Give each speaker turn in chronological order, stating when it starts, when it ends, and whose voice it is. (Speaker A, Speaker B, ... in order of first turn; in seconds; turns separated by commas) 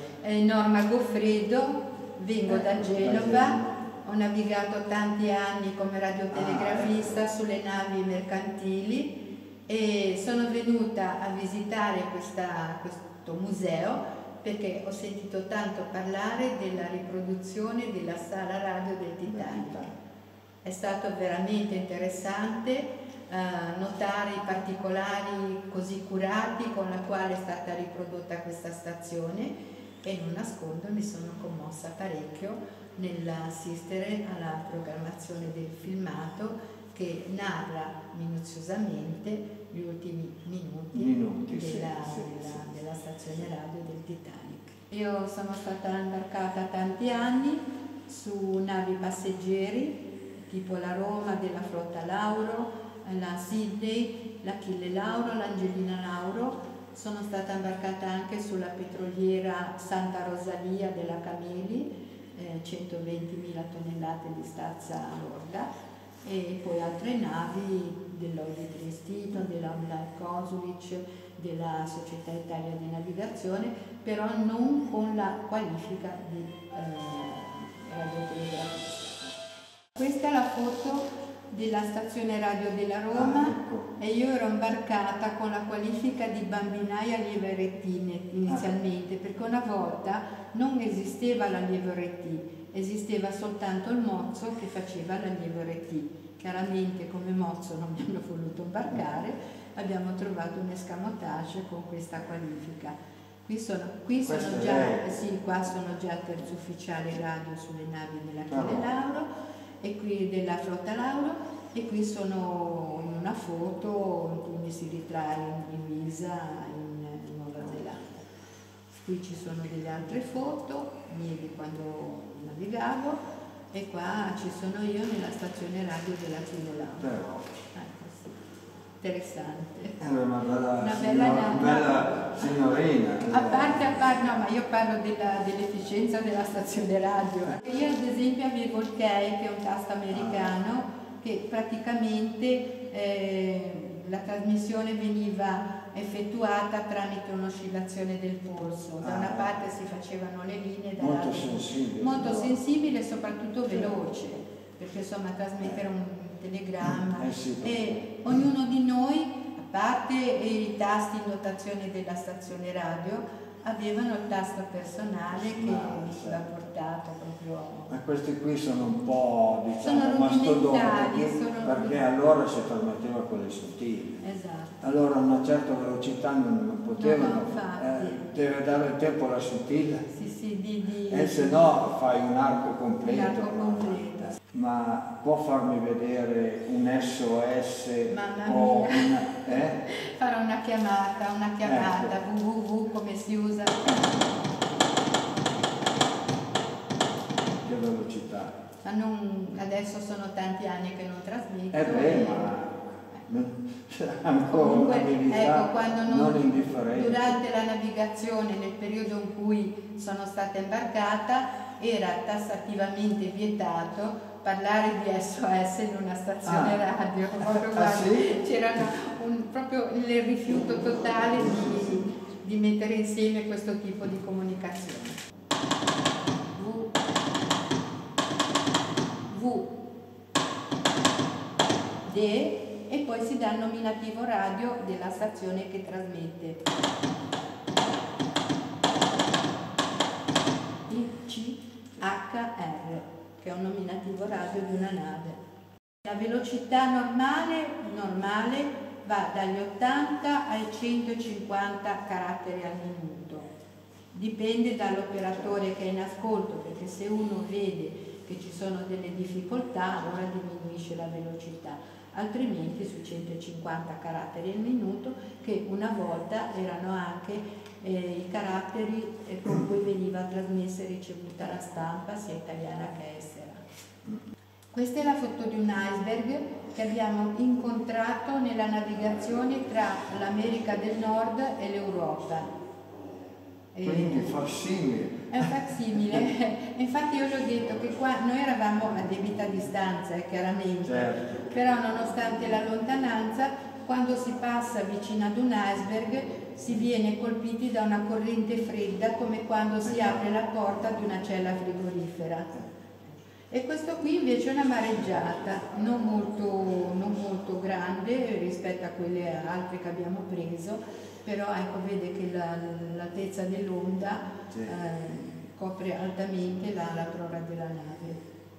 Speaker A: 0.2-19.8, Speaker B: 2.5-3.9, Speaker B: 6.3-7.1, Speaker B: 19.2-19.9, Speaker A: 20.6-65.7, Speaker B: 40.9-42.5, Speaker A: 66.2-79.3, Speaker A: 80.0-109.3, Speaker B: 83.1-83.9, Speaker B: 104.2-105.1, Speaker B: 108.5-108.9, Speaker A: 109.8-118.2, Speaker A: 118.9-123.2, Speaker A: 123.7-127.2, Speaker B: 127.0-127.5, Speaker A: 127.7-128.4, Speaker A: 129.0-130.0, Speaker B: 130.0-133.9, Speaker A: 130.8-132.6, Speaker A: 133.3-167.9, Speaker B: 140.1-140.6, Speaker B: 149.0-149.5, Speaker B: 151.0-152.6, Speaker B: 153.7-154.0, Speaker B: 156.8-158.3, Speaker B: 165.3-166.4, Speaker B: 167.9-174.2, Speaker A: 169.8-172.1, Speaker A: 174.2-174.9, Speaker B: 174.8-180.1, Speaker A: 177.0-178.3, Speaker A: 180.1-181.8, Speaker B: 181.1-189.8, Speaker A: 183.0-184.4, Speaker A: 188.1-194.0, Speaker B: 191.6-192.1, Speaker B: 197.6-198.6, Speaker A: 198.8-202.6, Speaker B: 201.7-207.4, Speaker A: 204.5-225.2, Speaker B: 216.4-216.8, Speaker B: 217.4-218.3, Speaker A: 226.6-227.0, Speaker A: 229.3-229.7, Speaker A: 232.1-236.6, Speaker A: 240.9-245.4, Speaker A: 246.0-253.5, Speaker A: 254.1-273.6, Speaker A: 274.7-282.5, Speaker A: 283.7-284.4, Speaker B: 283.8-286.2, Speaker A: 285.3-302.6, Speaker B: 290.8-291.5, Speaker B: 299.8-300.2, Speaker A: 303.5-318.2